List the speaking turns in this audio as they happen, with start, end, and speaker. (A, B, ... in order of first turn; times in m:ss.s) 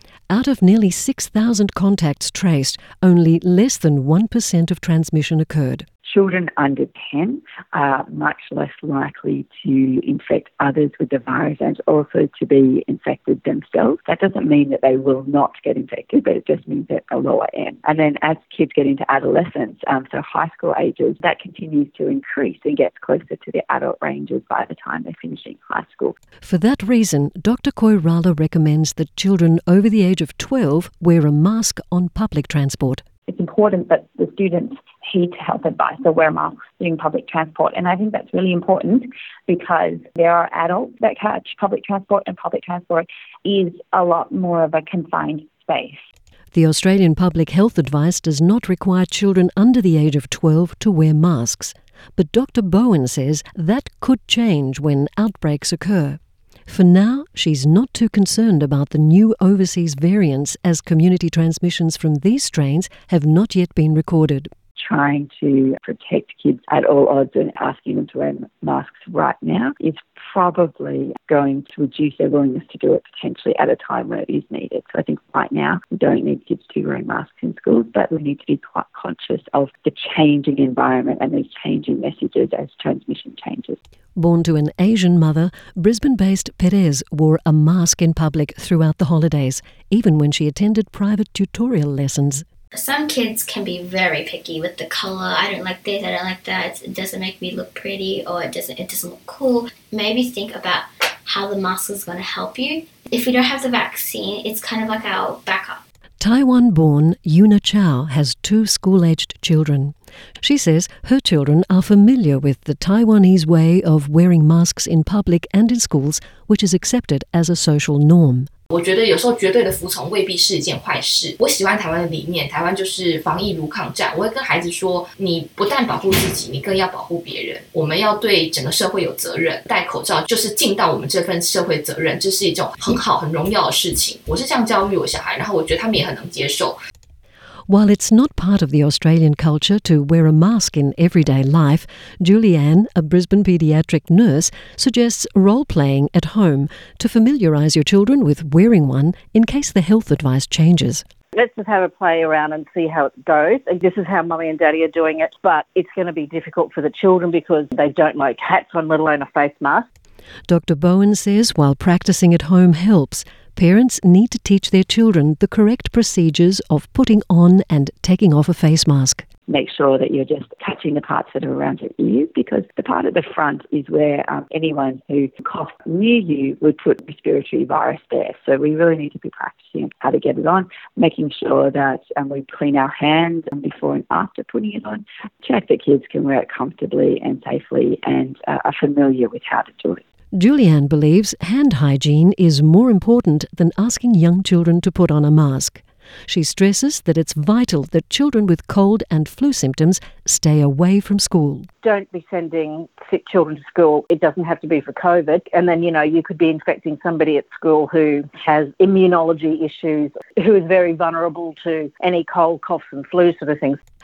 0:00.3-0:05.9 A
0:06.0-0:26.2 B
0:26.4-0:33.0 A
0:33.3-0:46.0 C
0:46.5-1:04.5 A
1:04.8-1:23.8 B
1:24.1-1:32.4 A
1:32.7-1:45.8 D
1:46.2-1:58.5 A
1:58.7-2:16.8 E
2:17.7-2:31.0 A
2:31.4-2:39.8 F
2:40.5-2:49.2 A
2:49.5-3:10.0 B
3:10.3-3:21.7 A
3:21.8-3:33.7 F